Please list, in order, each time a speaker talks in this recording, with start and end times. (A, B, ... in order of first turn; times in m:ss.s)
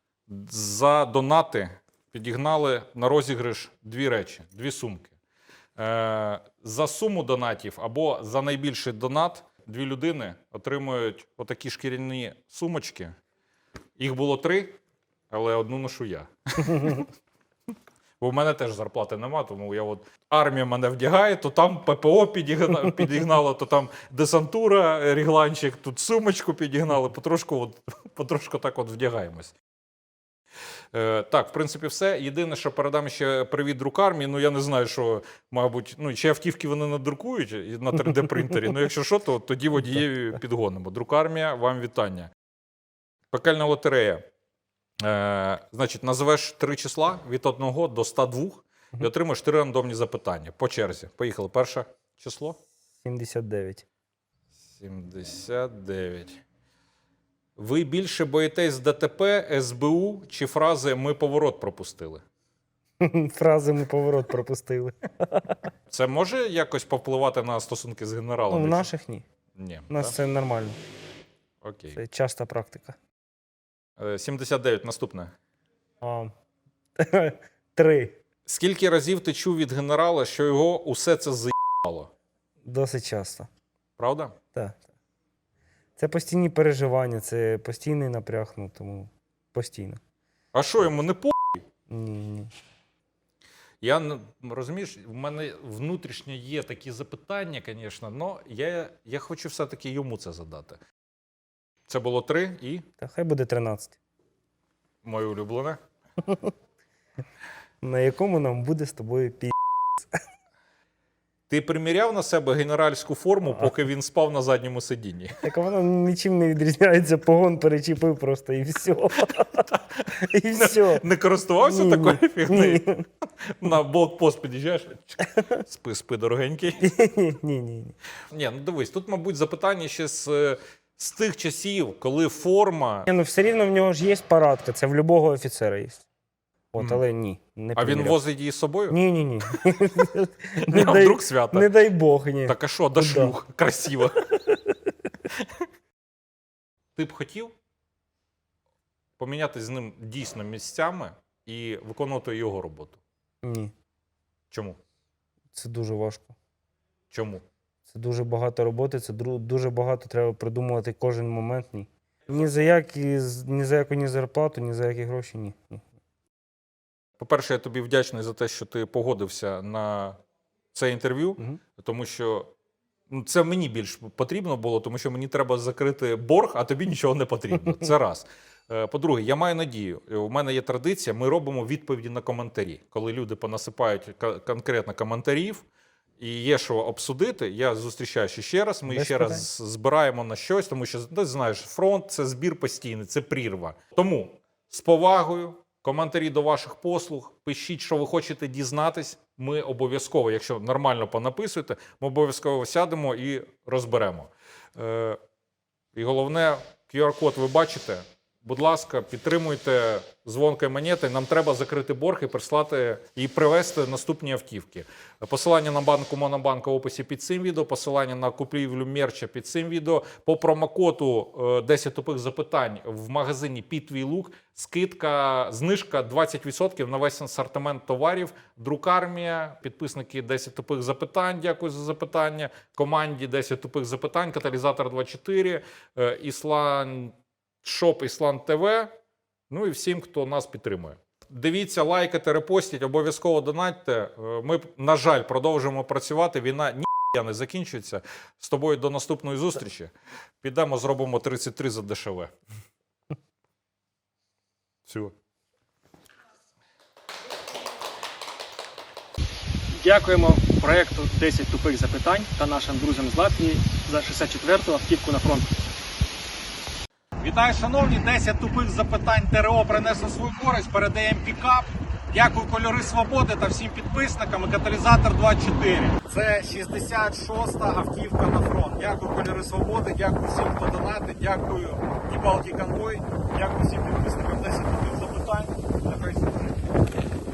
0:00.3-0:05.1 A
0:05.8-0:13.2 A
0:14.0-0:14.8 A
0:15.3-0:17.1 A
0:18.2-0:29.5 A
0:30.9-0:42.3 A
0:43.3-0:44.3 A
0:45.0-0:52.6 A
0:53.0-0:53.8 B
0:54.6-0:56.4 A
0:57.6-1:02.2 A
1:03.0-1:05.6 B
1:05.9-1:08.9 A
1:08.5-1:09.2 B
1:09.5-1:10.1 A
1:09.9-1:10.8 B
1:11.6-1:12.0 A
1:11.9-1:13.0 B
1:14.0-1:15.3 A
1:16.0-1:16.3 B
1:17.0-1:18.2 B
1:18.4-1:22.1 A
1:22.6-1:23.5 B
1:24.0-1:24.3 A
1:24.5-1:24.8 B
1:26.0-1:30.0 B
1:30.5-1:31.6 A
1:31.9-1:32.5 B
1:33.8-1:40.8 A
1:41.9-1:42.8 A
1:43.0-1:44.0 B
1:45.0-1:45.8 A
1:46.3-1:46.5 B
1:47.8-1:50.2 B
1:51.5-1:55.4 A
1:55.4-2:01.0 B
1:59.6-2:02.9 A
2:01.6-2:03.0 B
2:03.4-2:06.8 A
2:05.2-2:05.6 B
2:06.8-2:08.0 B
2:08.3-2:13.1 A
2:13.1-2:16.0 B
2:16.7-2:18.2 B
2:17.8-2:19.0 A
2:18.9-2:23.4 B
2:20.6-2:21.7 A
2:22.4-2:24.2 A
2:24.5-2:24.7 B
2:25.3-2:25.6 A
2:27.0-2:27.5 A
2:29.2-2:33.0 A
2:33.4-2:33.7 B
2:34.5-2:34.8 A
2:35.5-2:36.4 B
2:37.1-2:37.4 A
2:37.9-2:45.8 B
2:47.2-2:50.2 A
2:50.7-2:52.5 A
2:53.1-3:05.6 A
3:06.2-3:25.2 A
3:08.9-3:09.4 B
3:25.9-3:58.9 A
3:59.5-4:12.3 A
4:14.8-4:15.1 A
4:19.7-4:25.5 C
4:27.2-4:46.7 A